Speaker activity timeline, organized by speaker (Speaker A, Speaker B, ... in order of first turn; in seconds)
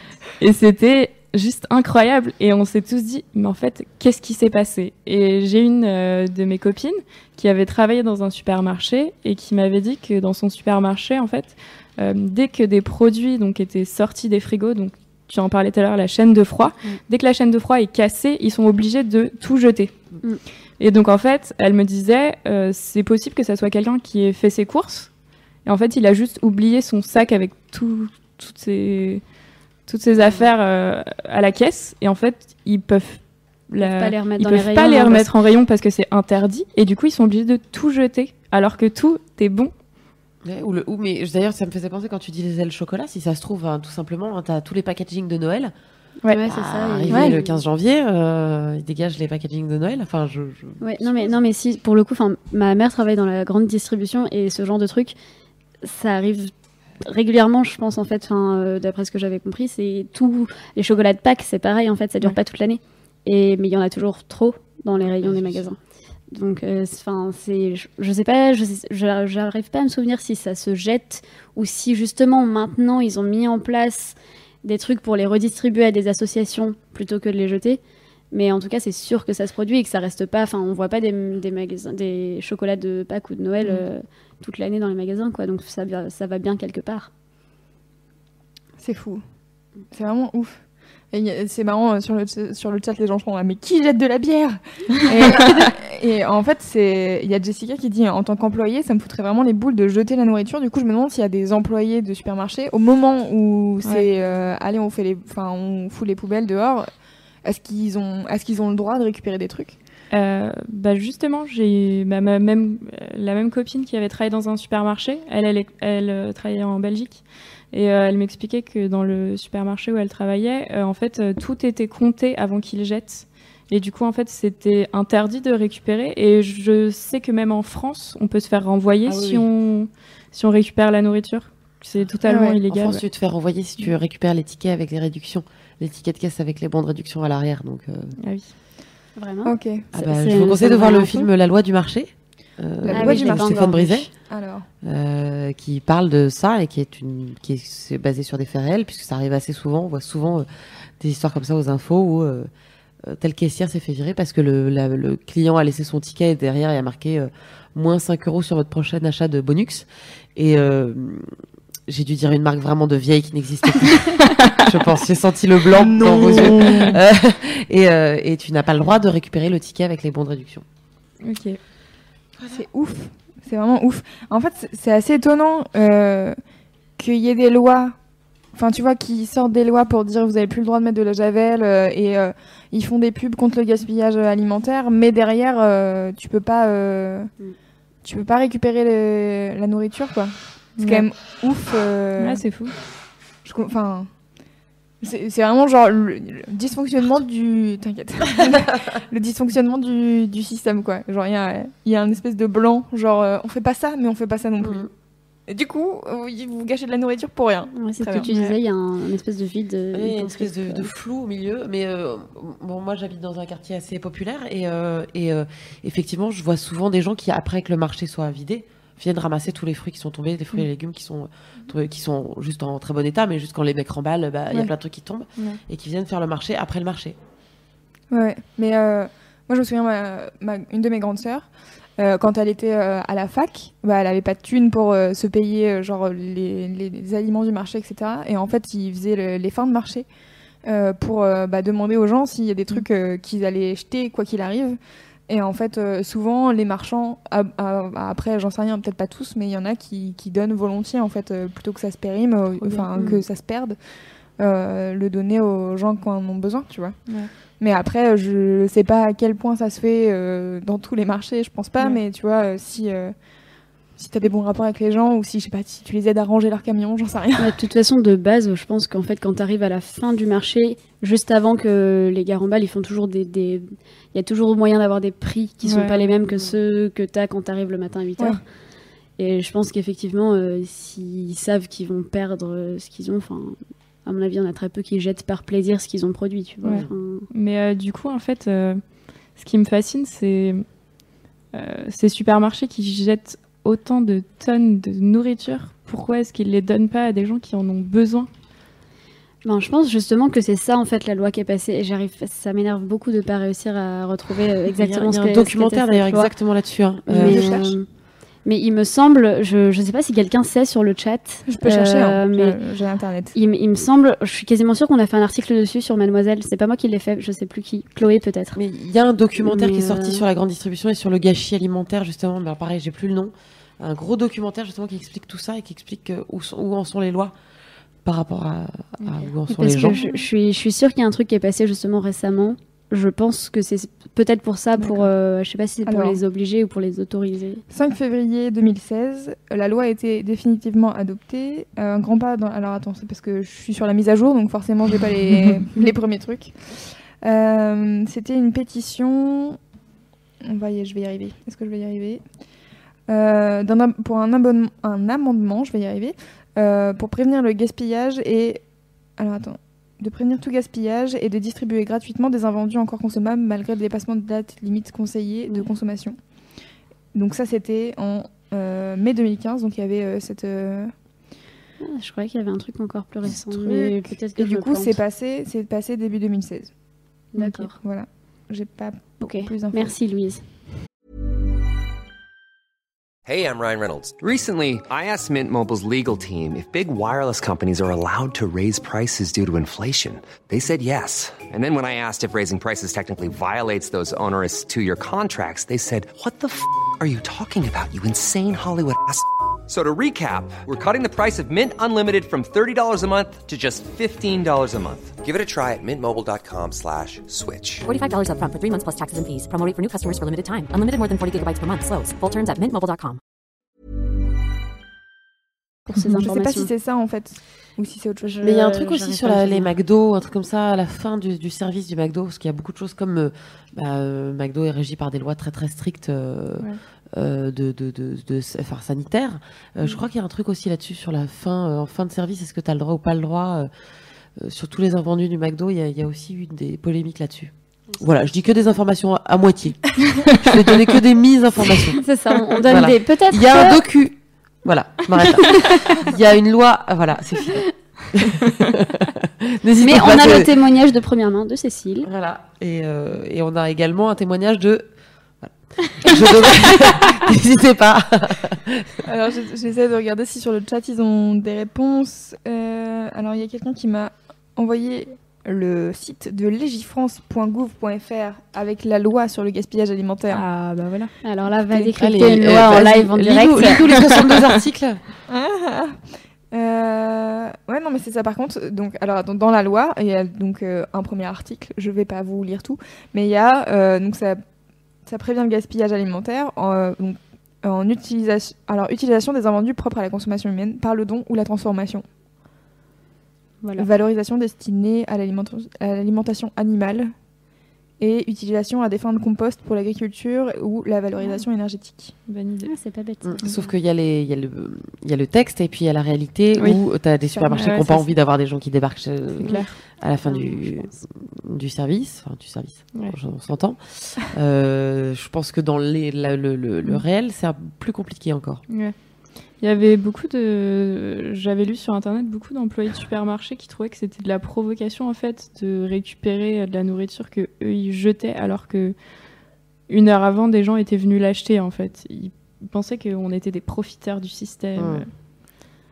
Speaker A: 0.4-19.9, 20.8-25.1, 25.6-29.2, 29.9-39.7, 95.2-95.5, 110.1-133.0, 138.2-138.5, 171.2-171.6, 190.8-191.1, 192.2-192.7, 208.2-208.6, 252.6-253.1, 275.6-276.0, 286.6-288.8, 289.4-290.6, 291.5-298.3, 329.0-329.3, 329.9-330.3, 470.4-471.1, 502.3-502.7, 507.5-508.1, 509.4-509.7, 518.7-518.9, 519.6-528.9, 529.9-535.1
Speaker B: 30.2-30.4, 33.8-35.3, 46.2-47.6, 50.8-55.1, 55.8-65.8, 66.3-77.8, 78.3-87.1, 139.2-141.3, 142.9-144.1, 207.8-210.9, 267.4-278.4, 279.2-287.3, 299.4-306.3, 307.1-307.9, 308.4-312.6, 313.3-318.6, 319.4-320.2, 329.5-337.6, 371.8-375.0, 377.3-377.7, 379.2-380.4, 415.9-416.7, 418.2-419.7, 442.0-443.8, 449.8-452.1, 471.2-474.1, 493.6-493.9, 502.6-503.7, 510.2-511.0
Speaker C: 40.4-45.7, 46.5-51.4, 65.0-65.7, 129.1-129.5, 132.7-138.2, 139.9-144.1, 144.8-150.5, 151.0-152.5, 153.0-161.3, 161.9-170.6, 172.4-172.6, 204.6-204.9, 209.9-227.2, 304.7-307.6, 318.5-327.3, 328.0-330.0, 418.4-433.7, 434.4-442.0, 442.6-450.5, 452.0-454.8, 455.4-459.0, 472.0-475.0, 503.2-518.6, 534.8-535.0
Speaker D: 47.1-47.4, 88.8-89.2, 89.9-90.6, 91.1-106.9, 107.4-109.8, 132.2-132.6, 139.4-139.9, 142.8-144.7, 165.7-166.9, 172.5-176.4, 177.0-177.9, 178.5-187.3, 188.0-192.4, 193.4-194.1, 195.0-204.9, 205.5-208.3, 228.1-240.1, 240.6-253.8, 254.4-263.1, 263.9-267.6, 307.1-307.7, 311.5-313.3, 335.9-336.2, 337.7-349.6, 350.4-352.2, 353.1-358.6, 359.2-366.2, 367.1-370.9, 373.5-376.7, 377.4-379.9, 416.1-418.3, 459.0-470.5, 471.6-471.9, 475.3-476.0, 476.5-484.4, 485.1-492.0, 493.8-497.1, 498.0-502.1
Speaker E: 383.2-407.9
Speaker F: 407.8-413.2